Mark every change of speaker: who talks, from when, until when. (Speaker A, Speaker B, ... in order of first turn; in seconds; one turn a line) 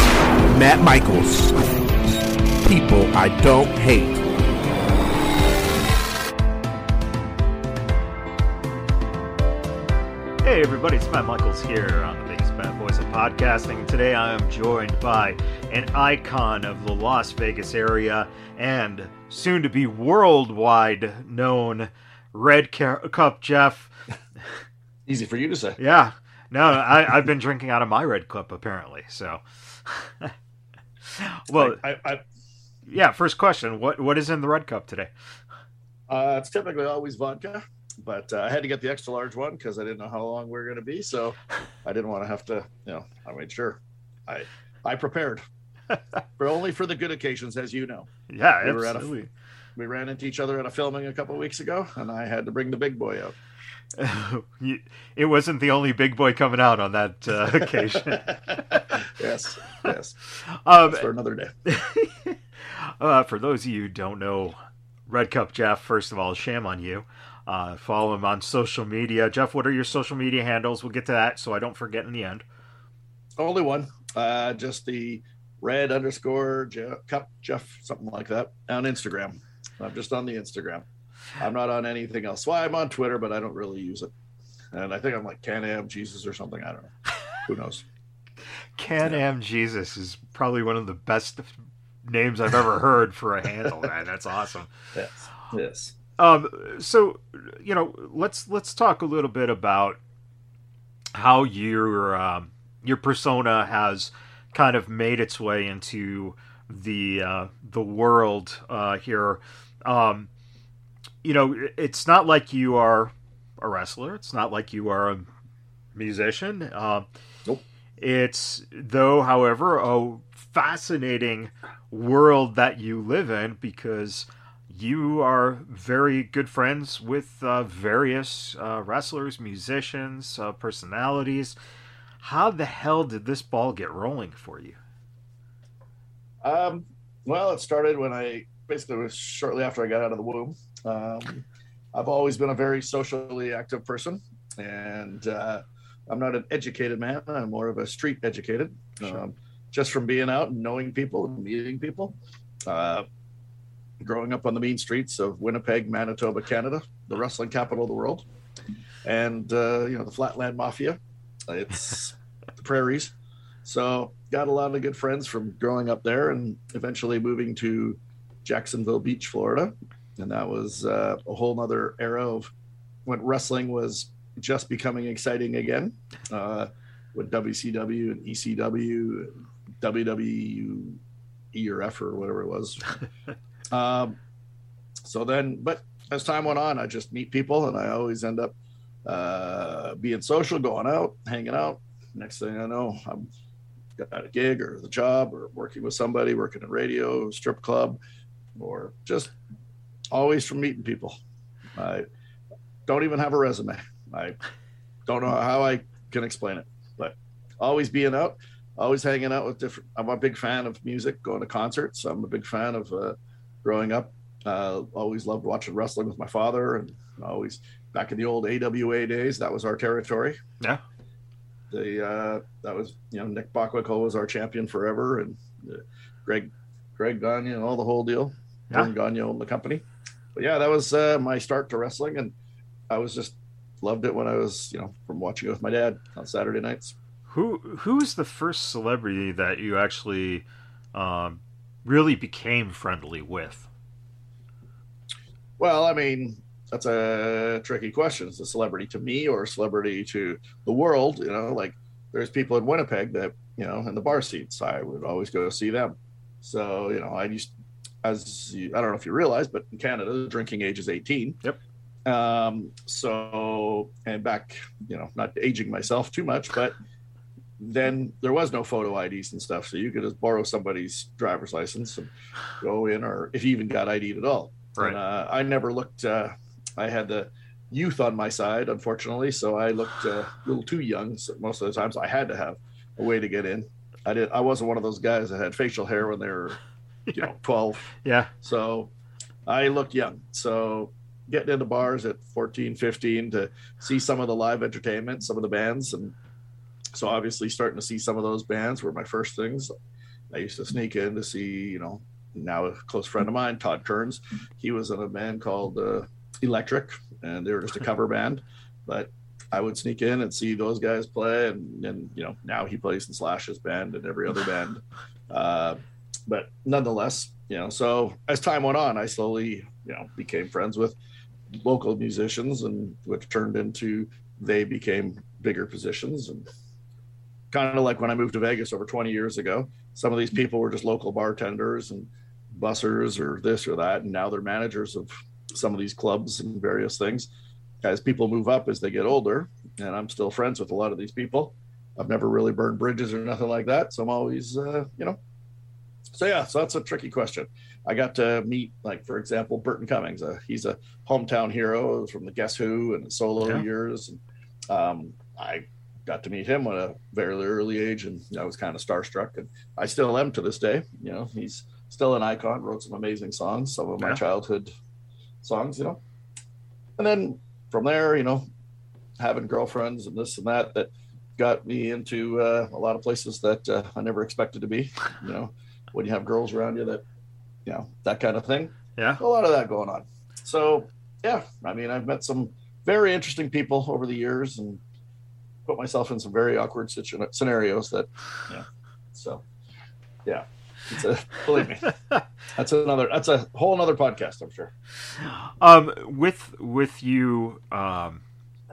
Speaker A: 0.4-1.6
Speaker A: 2.6-4.2
Speaker B: 10.4-23.9
Speaker C: 25.1-25.8
Speaker B: 25.8-30.3
Speaker B: 31.0-31.8
Speaker C: 31.6-32.2
Speaker B: 32.9-35.1
Speaker C: 36.1-45.4
Speaker C: 46.4-48.1
Speaker B: 48.3-49.3
Speaker C: 48.6-49.1
Speaker C: 49.8-53.3
Speaker B: 54.0-58.4
Speaker C: 58.0-60.2
Speaker B: 60.4-61.1
Speaker C: 60.8-61.5
Speaker B: 61.6-72.4
Speaker C: 73.4-80.8
Speaker C: 81.4-84.1
Speaker C: 84.7-87.8
Speaker B: 88.8-94.7
Speaker C: 94.9-96.0
Speaker B: 96.2-100.0
Speaker B: 101.1-110.3
Speaker B: 111.2-115.3
Speaker B: 115.9-117.0
Speaker B: 118.0-131.6
Speaker B: 132.2-134.8
Speaker C: 136.4-152.1
Speaker C: 152.7-153.0
Speaker C: 154.0-158.2
Speaker C: 159.0-163.1
Speaker C: 163.6-172.5
Speaker C: 173.1-181.0
Speaker C: 181.5-182.9
Speaker C: 183.7-184.2
Speaker C: 185.0-188.5
Speaker C: 189.0-193.3
Speaker C: 194.0-198.0
Speaker C: 198.6-199.3
Speaker C: 200.1-201.2
Speaker C: 201.8-202.0
Speaker C: 202.9-204.4
Speaker C: 205.1-220.4
Speaker C: 221.7-229.8
Speaker C: 230.3-232.3
Speaker C: 232.9-236.9
Speaker B: 237.3-243.7
Speaker C: 245.6-257.5
Speaker C: 258.0-261.4
Speaker C: 262.1-266.8
Speaker C: 267.6-286.6
Speaker C: 287.1-288.9
Speaker B: 288.0-288.3
Speaker C: 289.4-296.1
Speaker C: 296.9-299.7
Speaker C: 300.3-320.9
Speaker C: 321.6-326.5
Speaker C: 327.5-337.3
Speaker C: 337.8-345.2
Speaker C: 346.1-364.7
Speaker C: 365.4-366.0
Speaker C: 367.0-368.4
Speaker C: 369.2-377.0
Speaker C: 377.6-384.8
Speaker C: 385.6-389.4
Speaker C: 390.2-391.9
Speaker C: 392.5-394.7
Speaker B: 395.1-398.2